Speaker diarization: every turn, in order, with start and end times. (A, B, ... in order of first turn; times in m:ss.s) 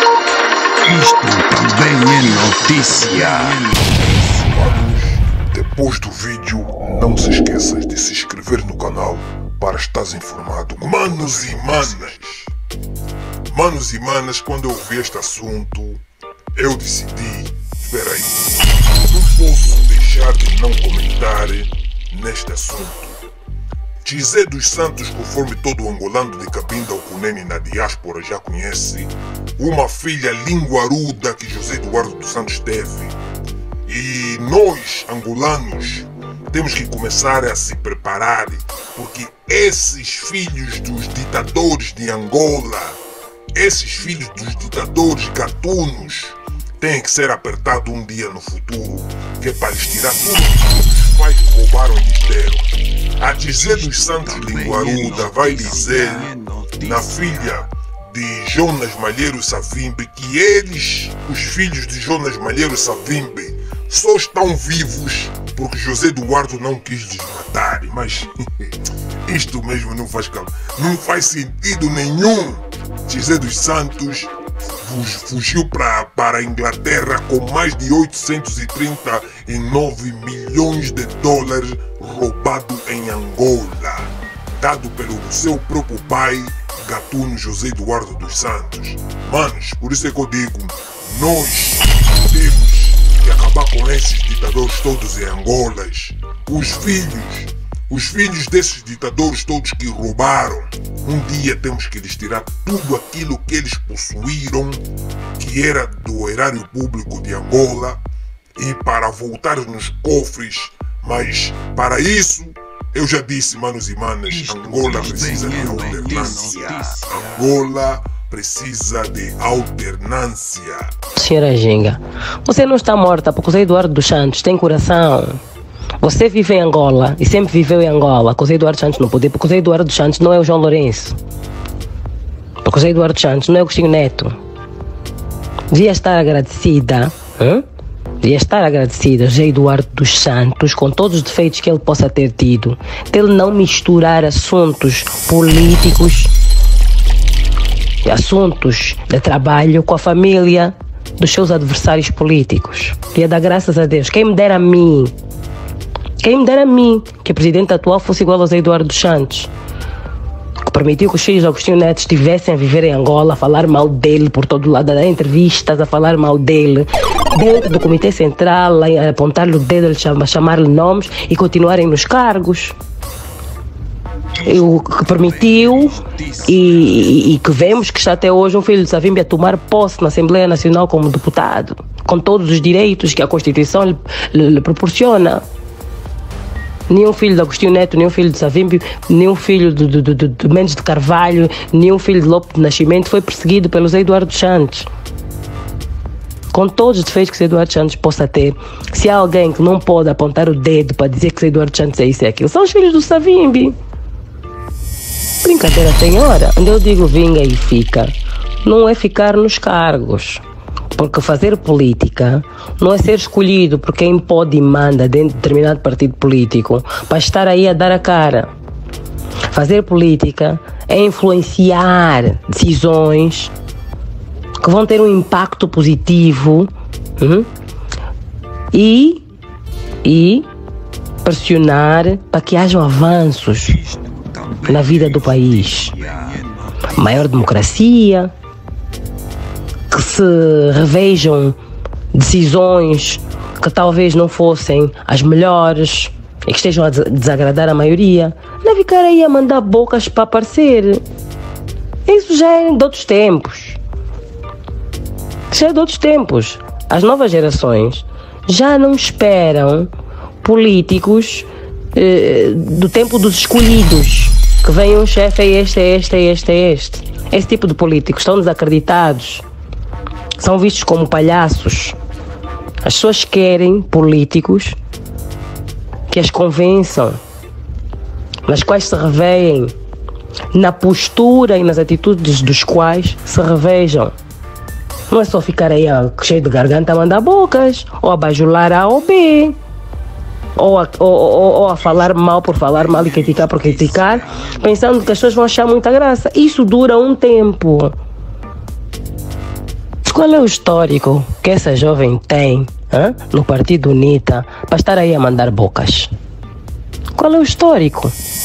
0:00.8-0:04.2 A
0:04.5-0:12.5 B
0:13.5-0:16.0 B
0:16.6-0:23.2 B
0:24.0-0:33.2 B
0:33.9-0:43.0 B
0:43.6-1:08.7 B
0:53.8-0:57.6 A
1:09.3-1:14.3 B
1:14.8-1:44.8 B
1:45.4-1:48.0 B
1:48.6-2:00.9 B
1:54.3-1:57.5 A
2:01.2-2:05.4 C
2:06.0-2:11.2 C
2:12.6-2:14.4 C
2:15.7-2:17.6 C
2:18.2-2:26.3 C
2:28.0-2:35.1 C
2:36.2-2:39.5 C
2:40.6-2:52.8 C
2:54.4-3:05.4 C
2:55.4-2:56.9 A
3:06.9-3:14.9 C
3:16.5-3:23.8 C
3:25.4-3:30.4 C
3:31.0-3:38.5 C
3:39.5-3:43.5 C
3:44.6-3:47.5 C
3:48.7-3:49.2 C
3:50.0-3:50.5 C
3:51.2-3:53.8 C
3:53.9-3:57.3 A
3:54.6-3:56.0 C
3:56.9-3:58.3 C
3:59.9-4:01.6 C
4:02.1-4:11.0 C
4:12.1-4:13.8 C
4:15.5-4:19.9 C
4:20.4-4:29.4 C
4:30.4-4:32.0 C
4:32.8-4:34.8 C
4:36.1-4:37.2 C
4:38.5-4:39.7 C
4:40.5-4:44.1 C
4:45.1-4:49.6 C
4:50.6-4:58.0 C
4:52.8-4:54.5 A
5:00.0-5:06.1 C
5:07.2-5:08.2 C